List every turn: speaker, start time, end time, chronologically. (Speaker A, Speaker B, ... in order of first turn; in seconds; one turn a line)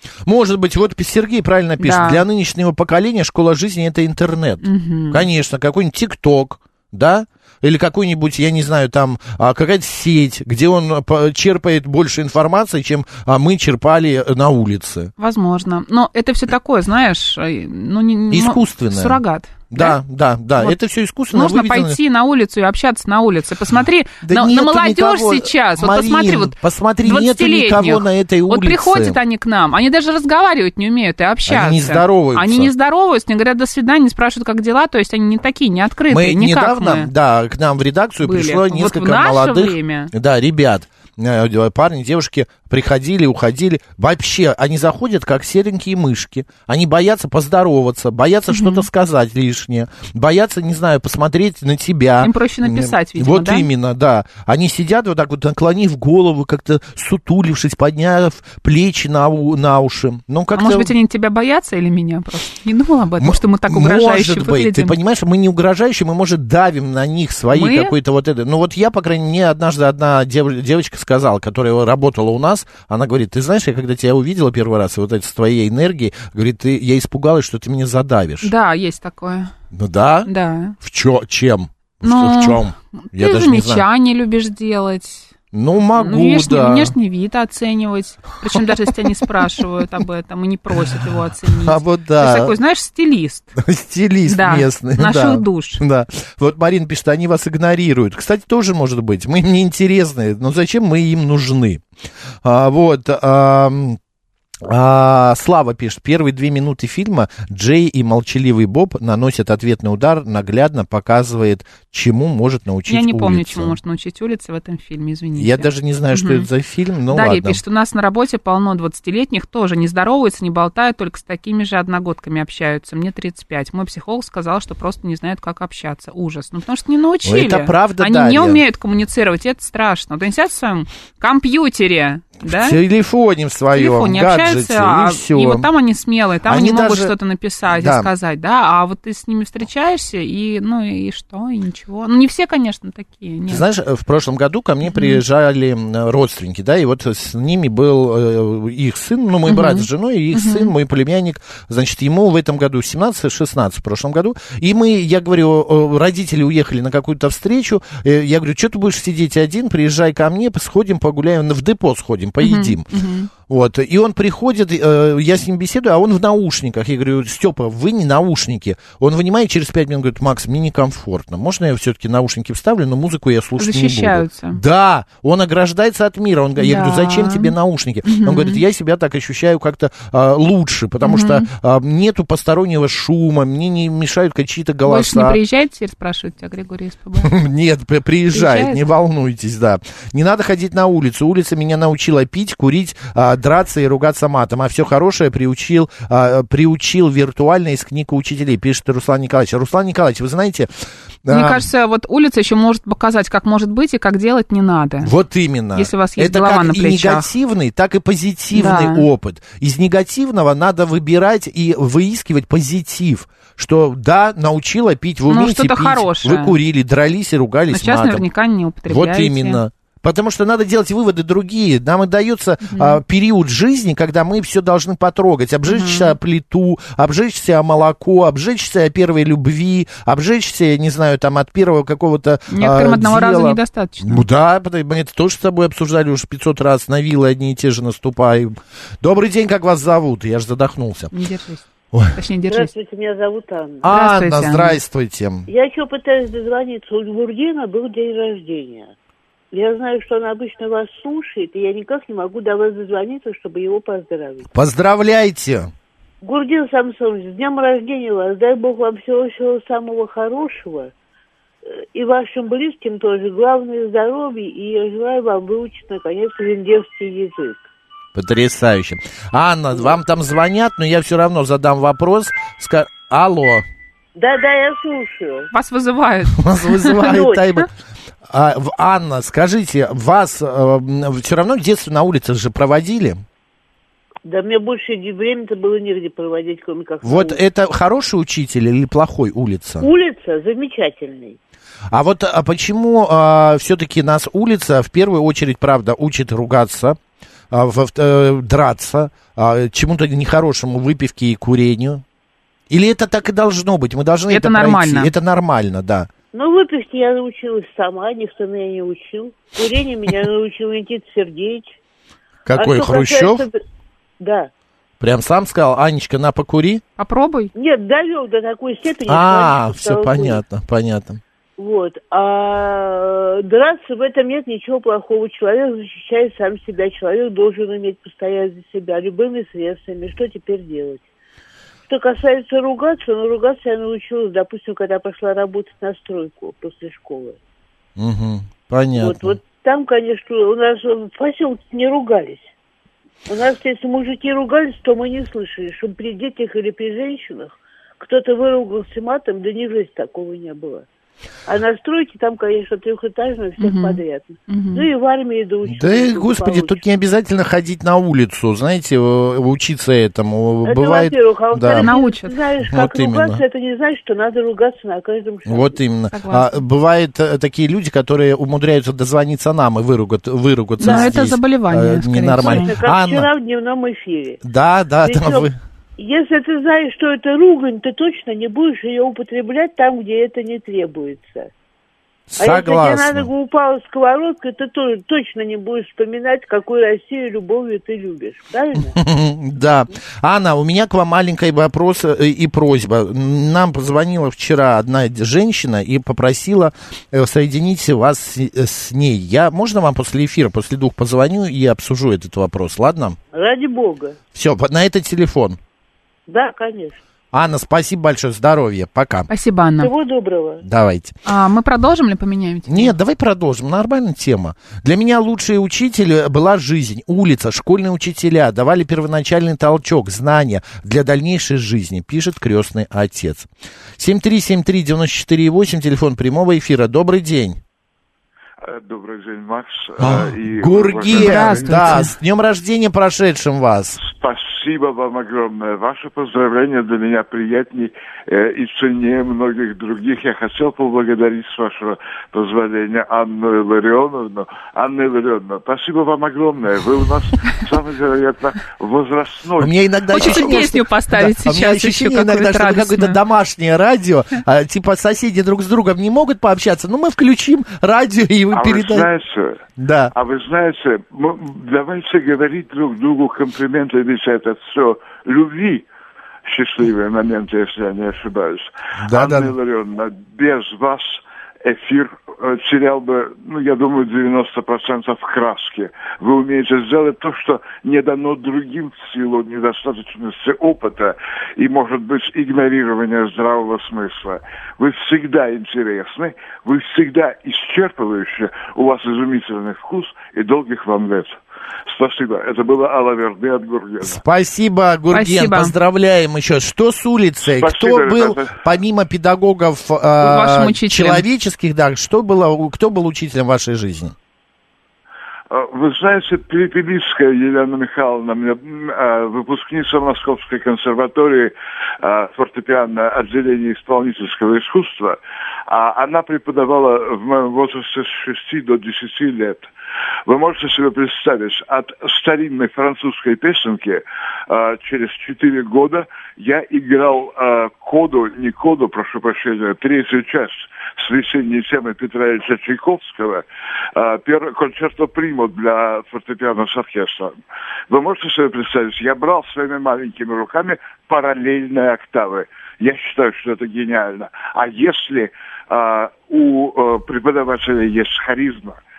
Speaker A: 0.2-15.1
Speaker B: 1.8-2.2
Speaker B: 4.6-5.2
Speaker B: 15.2-20.0
Speaker A: 18.3-22.0
Speaker B: 21.3-37.1
Speaker A: 24.2-29.2
Speaker A: 31.4-32.7
Speaker A: 36.1-60.9
Speaker B: 38.2-40.1
Speaker B: 48.5-48.9
Speaker B: 52.2-53.7
Speaker B: 60.5-65.0
Speaker A: 63.2-78.5
Speaker B: 67.5-67.9
Speaker B: 78.4-79.5
Speaker A: 79.7-83.8
Speaker B: 80.2-80.8
Speaker B: 82.0-85.3
Speaker A: 85.5-86.9
Speaker B: 86.0-93.5
Speaker A: 88.5-89.0
Speaker A: 91.5-92.5
Speaker A: 93.6-101.8
Speaker B: 94.3-95.8
Speaker A: 102.4-104.0
Speaker A: 104.6-113.8
Speaker B: 112.9-116.5
Speaker A: 115.3-117.6
Speaker B: 117.1-132.8
Speaker A: 127.2-128.6
Speaker A: 132.4-135.7
Speaker B: 133.7-143.6
Speaker A: 136.4-137.1
Speaker A: 137.7-138.1
Speaker A: 143.5-162.9
Speaker B: 144.8-145.2
Speaker B: 149.5-150.7
Speaker B: 162.4-163.3
Speaker A: 163.4-185.4
Speaker B: 173.6-174.6
Speaker B: 176.6-177.5
Speaker B: 178.0-178.6
Speaker B: 181.0-181.5
Speaker B: 184.8-187.3
Speaker A: 187.2-200.7
Speaker B: 188.3-188.8
Speaker A: 201.2-201.7
Speaker B: 201.3-205.1
Speaker A: 205.0-218.2
Speaker B: 205.7-207.3
Speaker B: 208.5-209.1
Speaker B: 215.3-216.6
Speaker B: 217.7-219.6
Speaker A: 218.8-241.1
Speaker B: 222.6-223.0
Speaker B: 225.7-226.1
Speaker B: 232.5-234.2
Speaker B: 241.1-242.7
Speaker C: 242.5-243.9
Speaker A: 243.8-245.4
Speaker B: 243.9-244.8
Speaker C: 245.5-248.9
Speaker C: 249.5-254.4
Speaker A: 254.5-255.7
Speaker C: 256.2-260.9
Speaker C: 261.6-267.6
Speaker A: 268.1-273.6
Speaker C: 274.1-275.5
Speaker B: 275.5-277.2
Speaker A: 276.4-277.7
Speaker C: 277.0-277.4
Speaker A: 278.3-283.2
Speaker C: 284.2-287.4
Speaker A: 287.0-289.9
Speaker C: 289.8-291.4
Speaker A: 291.9-297.0
Speaker A: 297.5-302.0
Speaker A: 302.7-306.1
Speaker B: 304.3-305.1
Speaker C: 306.3-311.8
Speaker A: 312.4-313.4
Speaker C: 312.5-313.6
Speaker C: 314.2-314.5
Speaker A: 315.0-316.8
Speaker B: 317.0-317.5
Speaker C: 317.5-320.4
Speaker A: 319.1-321.2
Speaker C: 321.6-331.0
Speaker C: 331.9-337.4
Speaker A: 338.0-339.4
Speaker C: 338.9-342.5
Speaker C: 343.3-350.9
Speaker C: 351.4-356.8
Speaker B: 353.6-354.9
Speaker A: 355.7-361.9
Speaker C: 360.6-365.8
Speaker B: 361.8-362.4
Speaker A: 362.7-363.4
Speaker A: 365.4-373.3
Speaker B: 366.1-366.6
Speaker B: 370.8-372.7
Speaker C: 370.8-371.1
Speaker C: 372.4-374.4
Speaker A: 374.4-375.5
Speaker C: 375.0-381.5
Speaker A: 382.3-383.3
Speaker C: 382.4-388.9
Speaker A: 388.9-403.2
Speaker C: 403.3-404.2
Speaker A: 404.3-405.6
Speaker C: 406.3-407.0
Speaker A: 407.3-409.3
Speaker B: 409.3-409.9
Speaker C: 409.8-410.6
Speaker A: 410.6-411.1
Speaker B: 411.2-412.9
Speaker A: 412.7-427.6
Speaker D: 428.6-432.0
Speaker A: 430.0-434.0
Speaker B: 431.1-432.1
Speaker D: 434.0-450.6
Speaker A: 449.6-459.1
Speaker B: 450.1-453.2
Speaker D: 458.5-459.6
Speaker A: 459.8-460.1
Speaker D: 460.1-465.9
Speaker D: 466.4-494.2
Speaker A: 469.0-469.5
Speaker A: 494.0-504.1
Speaker B: 495.1-495.7
Speaker D: 497.4-498.6
Speaker B: 500.2-501.2
Speaker D: 505.5-515.2
Speaker D: 515.7-519.7
Speaker D: 520.2-537.3
Speaker D: 537.9-548.8